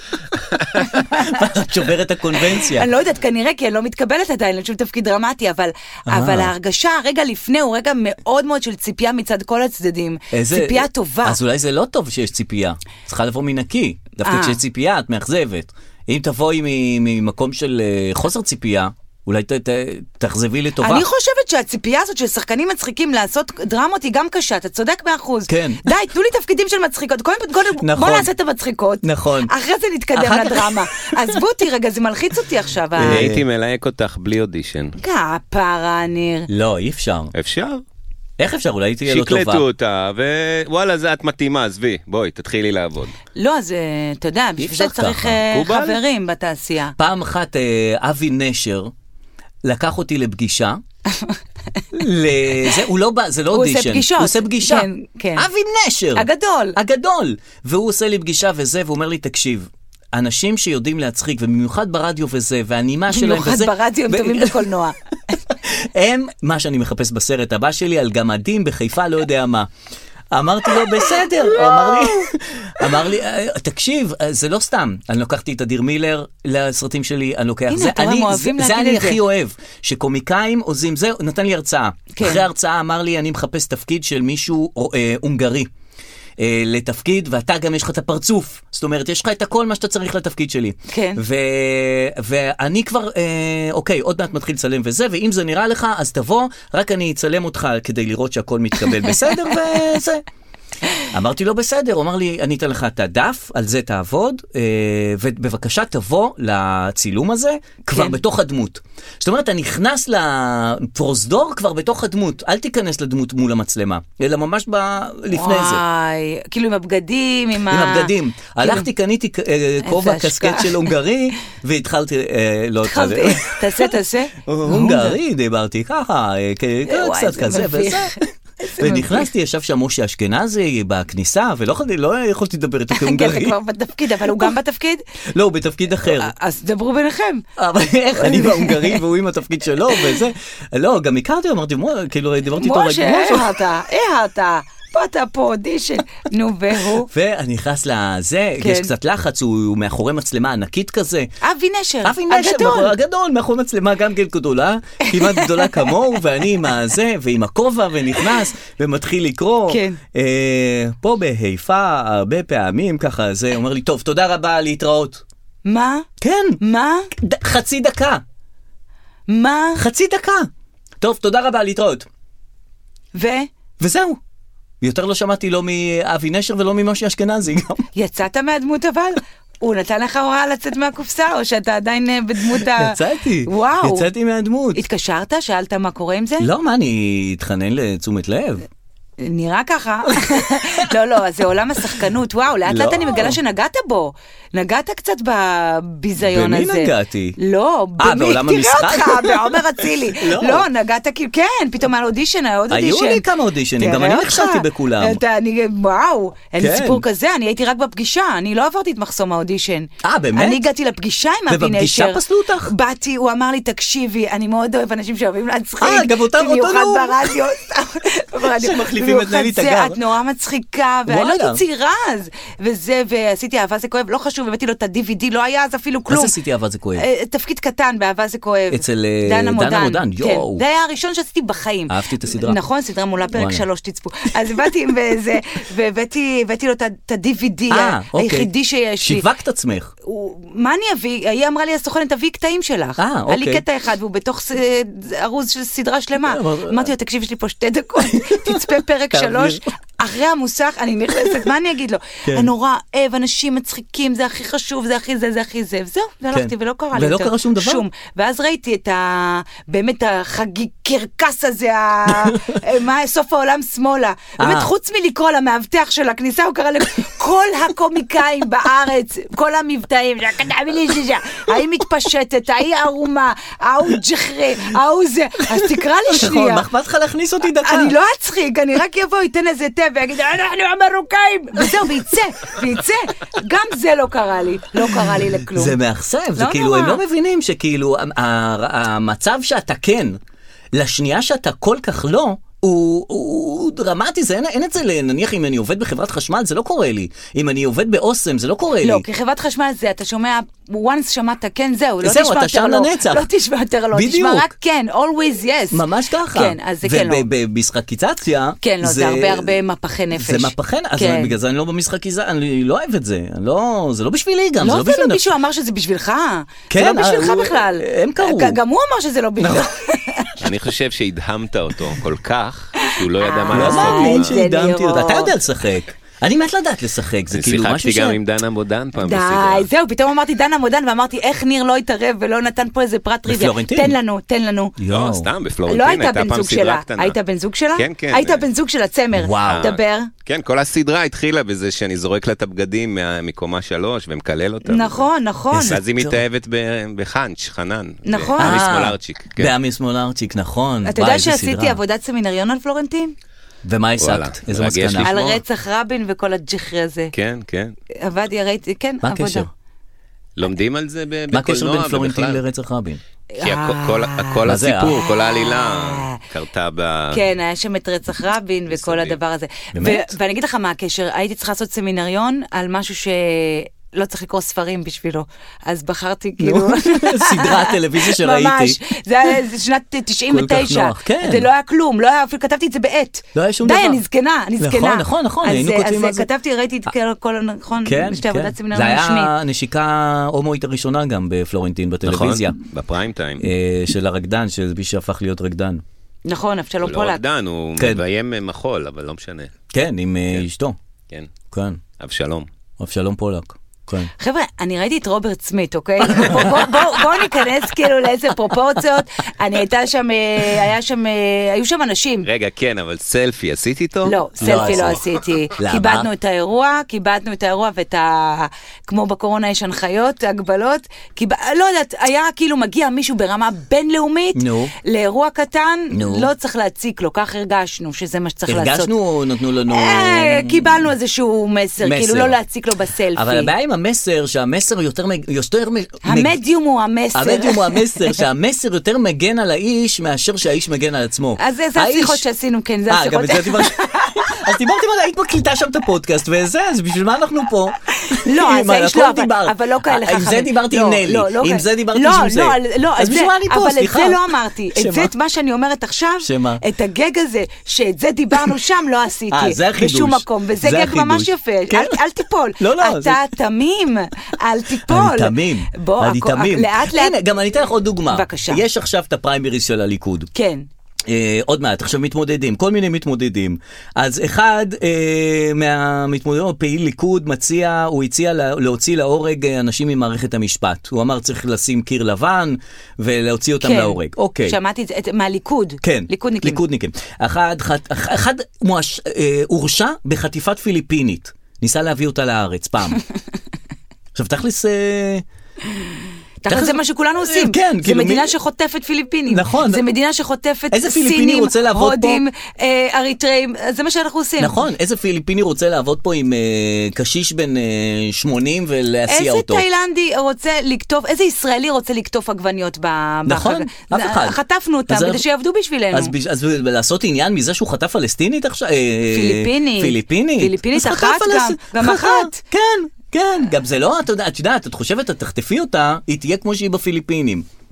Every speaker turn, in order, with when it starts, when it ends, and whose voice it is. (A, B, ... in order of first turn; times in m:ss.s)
0:00.8-0:01.5 A
0:01.2-0:02.9 B
0:02.5-0:11.4 A
0:06.1-0:06.5 B
0:10.3-0:21.0 B
0:14.2-0:14.6 A
0:20.8-0:33.3 A
0:25.5-0:25.8 B
0:27.8-0:28.3 B
0:29.0-0:29.5 B
0:30.1-0:31.4 B
0:33.0-0:33.4 B
0:33.0-0:35.0 C
0:35.0-0:36.5 A
0:36.5-0:37.3 B
0:37.3-0:37.8 C
0:38.4-0:39.6 B
0:39.0-0:43.1 C
0:43.3-0:47.0 A
0:44.6-0:45.4 B
0:45.4-0:46.0 C
0:47.0-0:48.9 B
0:49.6-0:50.8 B
0:51.1-0:51.4 A
0:51.9-1:04.7 B
0:53.5-0:55.5 A
0:56.1-0:56.8 A
1:03.1-1:05.4 A
1:05.6-1:09.7 B
1:10.3-1:25.7 B
1:11.5-1:12.2 A
1:17.7-1:19.2 A
1:22.1-1:22.4 A
1:26.4-1:40.2 B
1:30.9-1:31.2 A
1:41.1-1:55.8 B
1:47.9-1:48.2 A
1:55.3-1:58.9 A
1:57.7-2:03.9 B
1:59.8-2:00.9 A
2:02.8-2:05.2 A
2:04.4-2:08.2 B
2:06.9-2:09.3 A
2:08.8-2:13.6 B
2:12.9-2:15.0 A
2:14.3-2:14.5 B
2:15.3-2:16.3 B
2:16.1-2:17.4 A
2:17.6-2:23.5 B
2:18.1-2:19.0 A
2:22.6-2:27.1 A
2:27.0-2:31.3 B
2:28.6-2:28.9 A
2:31.4-2:32.9 A
2:32.0-2:45.2 B
2:35.0-2:35.9 A
2:39.7-2:40.0 A
2:45.6-2:46.0 A
2:46.2-2:46.6 B
2:46.6-2:47.1 A
2:47.1-2:48.2 B
2:49.3-2:49.8 A
2:49.8-2:50.5 B
2:51.0-2:52.0 B
2:53.1-2:53.5 A
2:53.8-2:54.2 B
2:54.8-2:57.8 B
2:57.9-3:04.0 A
3:02.5-3:04.8 B
3:04.7-3:06.5 A
3:06.4-3:08.6 B
3:09.2-3:23.2 A
3:12.7-3:13.4 B
3:16.2-3:17.4 B
3:18.0-3:20.6 B
3:22.7-3:25.2 B
3:23.8-3:46.3 A
3:26.6-3:27.0 B
3:30.0-3:30.6 B
3:31.5-3:32.7 B
3:35.8-3:37.4 B
3:38.4-3:40.0 B
3:41.1-3:41.6 B
3:46.1-3:47.0 B
3:47.0-3:59.2 A
3:48.7-3:50.6 B
3:51.9-3:52.6 B
3:53.3-3:53.6 B
3:57.7-3:58.5 B
3:59.0-3:59.9 B
4:00.0-4:36.6 A
4:03.0-4:03.6 B
4:06.2-4:06.9 B
4:08.0-4:09.6 B
4:12.2-4:12.5 B
4:16.3-4:17.8 B
4:22.1-4:22.6 B
4:24.4-4:24.7 B
4:35.5-4:37.9 B
4:37.6-4:45.8 A
4:44.8-4:50.2 B
4:46.4-4:47.0 A
4:50.7-4:59.0 B
4:58.8-5:07.2 A
5:02.0-5:03.3 B
5:03.9-5:04.5 B
5:05.7-5:09.6 B
5:08.6-5:11.3 A
5:10.1-5:15.2 B
5:14.6-5:20.4 A
5:16.7-5:18.6 B
5:19.4-5:19.7 B
5:20.4-5:24.4 C
5:23.2-5:25.3 A
5:23.5-5:28.2 B
5:27.3-5:29.7 C
5:29.0-5:34.8 A
5:33.2-5:34.0 B
5:34.8-5:35.3 B
5:34.9-5:37.2 C
5:35.7-5:40.1 A
5:37.7-5:38.4 C
5:39.1-5:39.7 B
5:39.4-5:45.1 C
5:44.6-5:45.8 A
5:45.5-5:46.2 B
5:45.6-5:49.5 C
5:48.0-5:48.7 A
5:48.4-5:51.8 B
5:50.8-5:53.1 A
5:53.6-5:55.4 B
5:54.0-5:55.1 C
5:55.0-5:57.1 A
5:57.1-5:57.7 C
5:58.0-5:59.5 A
5:59.0-5:59.5 B
6:00.4-6:02.4 C
6:01.3-6:03.0 B
6:03.4-6:06.2 A
6:03.4-6:07.2 C
6:04.4-6:05.0 B
6:07.1-6:29.3 A
6:08.7-6:09.2 C
6:09.7-6:10.1 B
6:16.4-6:18.8 B
6:20.3-6:21.5 B
6:23.3-6:24.0 B
6:24.6-6:26.3 B
6:27.8-6:32.6 B
6:32.0-6:33.4 C
6:33.4-6:35.8 B
6:36.2-6:37.2 A
6:36.8-6:39.5 C
6:37.8-6:38.0 B
6:39.7-6:40.7 B
6:41.5-6:41.8 B
6:42.0-6:42.5 C
6:42.8-6:44.1 B
6:44.2-6:52.3 A
6:46.0-6:47.2 B
6:52.2-6:55.0 C
6:54.0-7:08.9 A
6:54.4-6:55.0 B
6:55.6-6:56.1 B
7:04.3-7:04.7 B
7:05.9-7:06.3 B
7:08.5-7:10.9 B
7:09.7-7:13.5 A
7:11.8-7:12.4 B
7:13.1-7:16.4 B
7:16.0-7:18.2 A
7:17.1-7:22.2 B
7:21.4-7:24.4 A
7:22.9-7:35.1 B
7:28.0-7:47.2 A
7:36.2-7:36.6 B
7:39.3-7:42.0 B
7:42.6-7:43.2 B
7:44.8-7:50.3 B
7:48.1-7:48.6 A
7:50.3-7:50.6 A
7:51.1-8:04.6 B
8:03.6-8:06.6 A
8:05.8-8:13.0 B
8:14.1-8:15.2 B
8:16.4-8:24.6 A
8:16.4-8:18.3 B
8:19.3-8:19.8 B
8:20.7-8:22.2 B
8:24.4-8:29.6 B
8:29.1-8:36.1 A
8:33.2-8:35.2 B
8:35.9-8:47.4 B
8:39.1-8:42.4 A